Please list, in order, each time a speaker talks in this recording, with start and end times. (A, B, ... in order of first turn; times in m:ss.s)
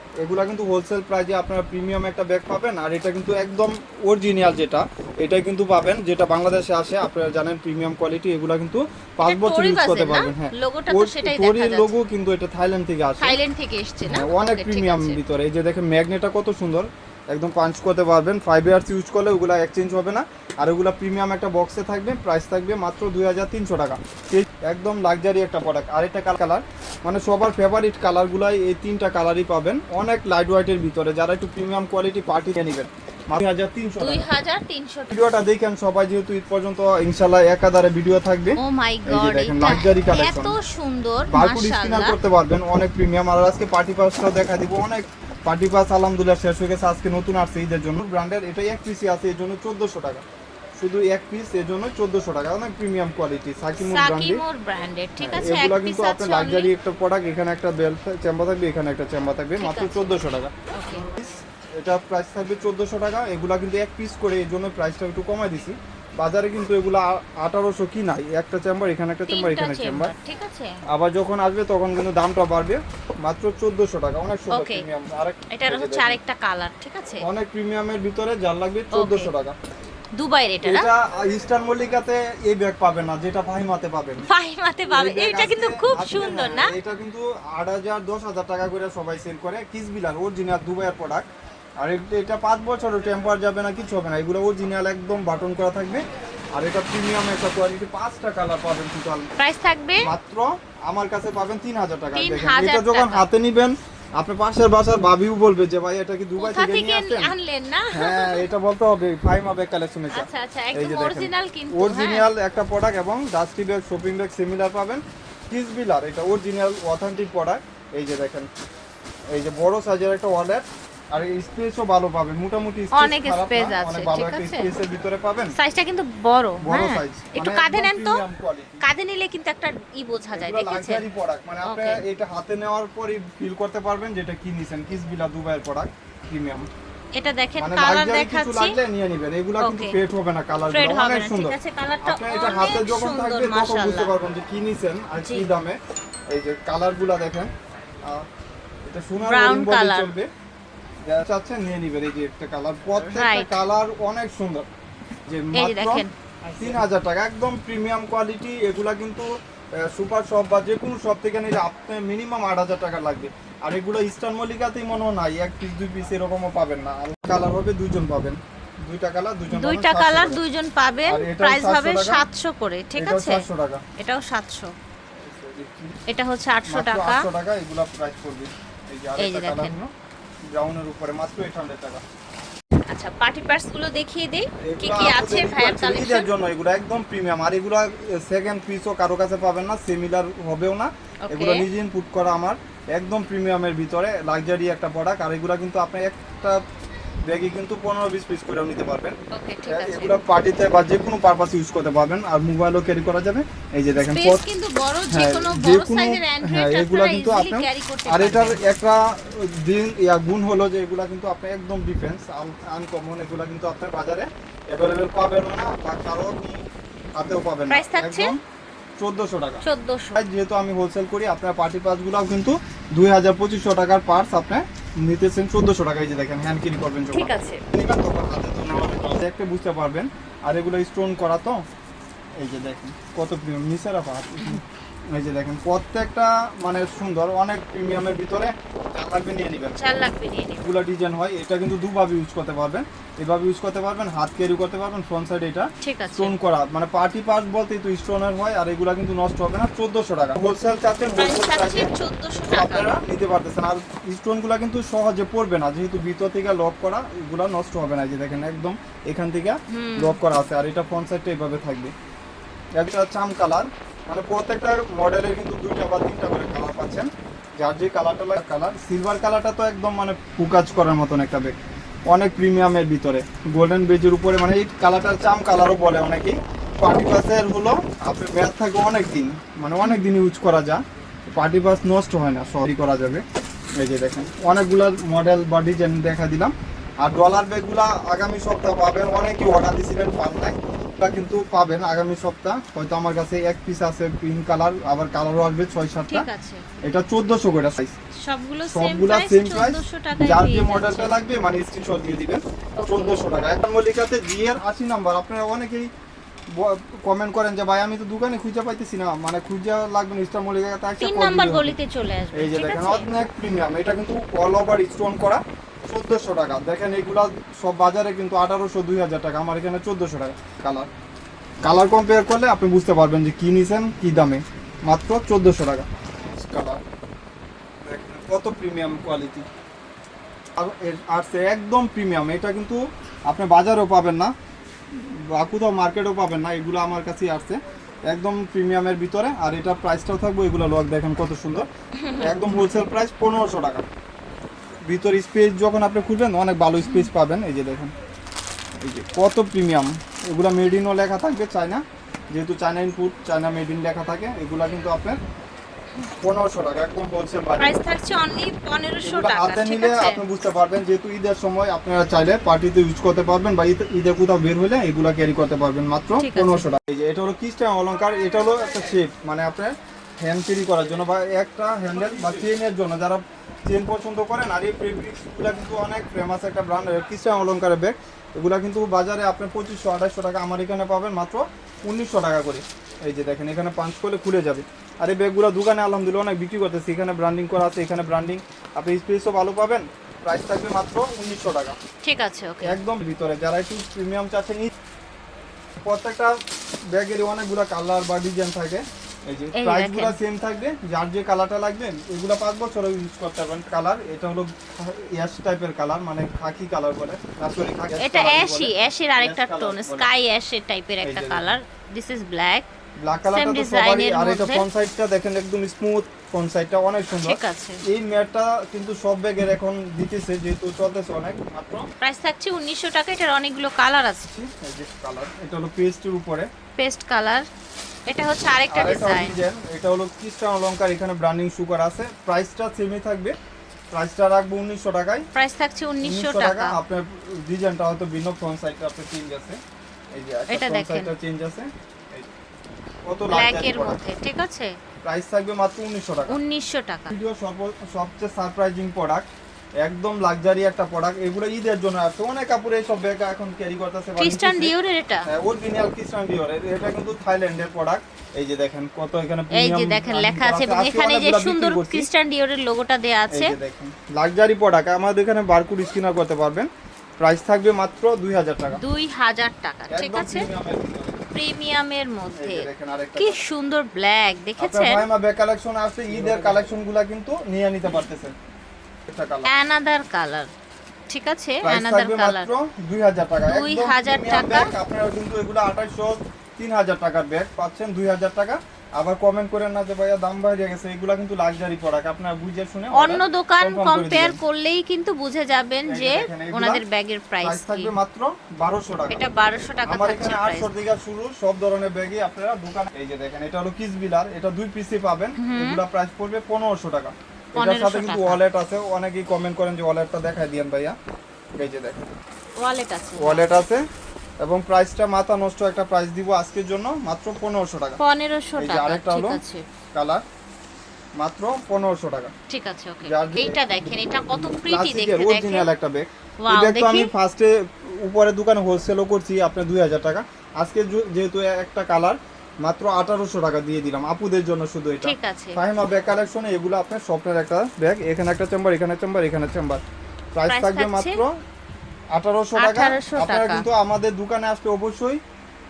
0:00.2-0:13.4 A
0:09.2-0:11.9 B
0:13.2-0:15.2 B
0:14.0-0:34.3 A
0:34.0-0:35.3 B
0:35.1-0:40.5 A
0:38.6-0:42.2 B
0:41.3-0:50.2 A
0:50.8-0:54.4 A
0:53.8-0:56.7 B
0:55.2-1:10.1 A
0:59.6-1:00.2 B
1:00.7-1:01.1 B
1:09.3-1:10.8 B
1:10.9-1:16.2 A
1:14.5-1:14.8 B
1:15.5-1:17.2 B
1:17.2-1:19.5 A
1:18.9-1:19.3 B
1:20.2-1:20.9 B
1:20.6-1:24.3 A
1:24.2-1:26.7 B
1:24.9-1:31.3 A
1:31.8-1:36.0 A
1:36.5-1:39.3 A
1:39.4-1:40.1 B
1:40.0-1:47.3 A
1:42.1-1:43.3 B
1:46.4-1:48.5 B
1:47.9-1:58.5 A
1:50.1-1:52.3 B
1:59.3-2:05.5 A
2:02.9-2:04.7 B
2:05.6-2:08.2 B
2:06.6-2:08.9 A
2:08.8-2:11.0 B
2:10.3-2:16.7 A
2:11.6-2:12.0 B
2:17.2-2:18.8 B
2:17.6-2:25.8 A
2:19.6-2:20.0 B
2:20.7-2:24.1 B
2:25.2-2:25.5 B
2:26.3-2:27.5 A
2:28.8-2:30.3 A
2:29.2-2:30.1 B
2:31.0-2:34.6 A
2:33.0-2:33.7 B
2:35.3-2:36.0 A
2:35.5-2:36.1 B
2:36.6-2:50.4 A
2:49.5-2:53.4 B
2:51.0-2:52.2 A
2:53.0-2:53.8 A
2:54.0-2:54.7 B
2:55.2-2:56.0 A
2:56.1-2:57.3 B
2:56.6-2:59.9 A
2:59.2-2:59.7 B
3:00.5-3:02.0 A
3:02.9-3:06.3 B
3:04.6-3:16.6 A
3:11.2-3:11.6 B
3:17.3-3:19.1 A
3:19.3-3:20.2 B
3:19.7-3:24.5 A
3:24.0-3:28.6 B
3:25.1-3:36.6 A
3:37.2-3:38.4 A
3:37.7-3:38.3 B
3:39.0-3:39.6 A
3:39.6-3:40.2 B
3:40.1-3:51.6 A
3:47.1-3:47.6 B
3:52.4-3:59.8 A
3:59.7-4:00.6 B
4:00.6-4:21.9 A
4:05.8-4:06.3 B
4:11.2-4:13.0 B
4:19.7-4:20.2 B
4:22.8-4:31.6 A
4:32.1-4:40.8 A
4:41.3-4:43.2 A
4:43.8-4:56.3 A
4:56.1-4:56.6 B
4:56.8-4:57.9 A
4:58.2-5:01.1 B
4:58.6-5:05.9 A
5:02.9-5:03.2 B
5:06.5-5:11.8 A
5:11.0-5:13.1 B
5:12.3-5:20.9 A
5:21.6-5:26.8 A
5:27.8-5:29.5 A
5:30.6-5:34.3 A
5:34.9-5:43.8 A
5:42.0-5:42.3 B
5:44.9-5:47.9 A
5:46.8-5:47.1 B
5:48.8-5:55.2 A
5:56.1-5:57.8 A
5:57.6-6:00.2 B
5:59.0-6:31.8 A
6:06.2-6:06.7 B
6:32.0-6:32.8 B
6:32.6-6:34.7 A
6:35.8-6:36.3 A
6:36.9-6:50.1 A
6:39.6-6:40.2 B
6:48.0-6:52.6 B
6:51.0-6:51.6 A
6:53.0-7:01.9 A
6:53.2-6:54.7 B
6:57.2-6:57.8 B
7:02.0-7:04.3 B
7:04.3-7:06.5 A
7:06.8-7:07.4 B
7:08.1-7:09.4 B
7:08.7-7:13.3 A
7:13.9-7:15.2 A
7:15.3-7:16.8 B
7:16.0-7:19.6 A
7:20.1-7:22.3 A
7:20.5-7:21.1 B
7:23.0-7:24.0 A
7:23.3-7:24.7 B
7:25.0-7:26.4 A
7:26.3-7:27.1 B
7:27.1-7:29.3 A
7:29.8-7:34.7 A
7:34.2-7:35.3 B
7:35.3-7:42.1 A
7:39.5-7:43.6 B
7:43.3-7:46.7 A
7:47.2-7:48.8 A
7:48.8-7:50.5 B
7:49.9-7:51.3 A
7:51.3-7:55.0 B
7:52.3-7:53.4 A
7:54.6-7:58.3 A
7:59.1-7:59.5 A
7:59.4-8:00.5 B
8:01.1-8:02.5 B
8:01.6-8:14.4 A
8:03.5-8:04.7 B
8:12.9-8:17.9 B
8:15.9-8:16.8 A
8:17.4-8:19.3 A
8:19.1-8:20.7 B
8:19.8-8:31.0 A
8:25.4-8:25.8 B
8:27.6-8:28.4 B
8:31.6-8:32.1 A
8:32.6-8:33.5 B
8:33.2-8:33.8 A
8:34.4-8:38.0 A
8:38.0-8:39.6 B
8:38.6-8:39.4 A
8:39.9-8:40.2 A
8:41.2-8:42.3 A
8:42.5-8:45.7 B
8:43.0-8:59.8 A
8:46.4-8:47.1 B
8:55.0-8:55.6 B
9:00.3-9:01.3 A
9:00.5-9:01.2 B
9:02.1-9:05.2 A
9:02.6-9:03.6 B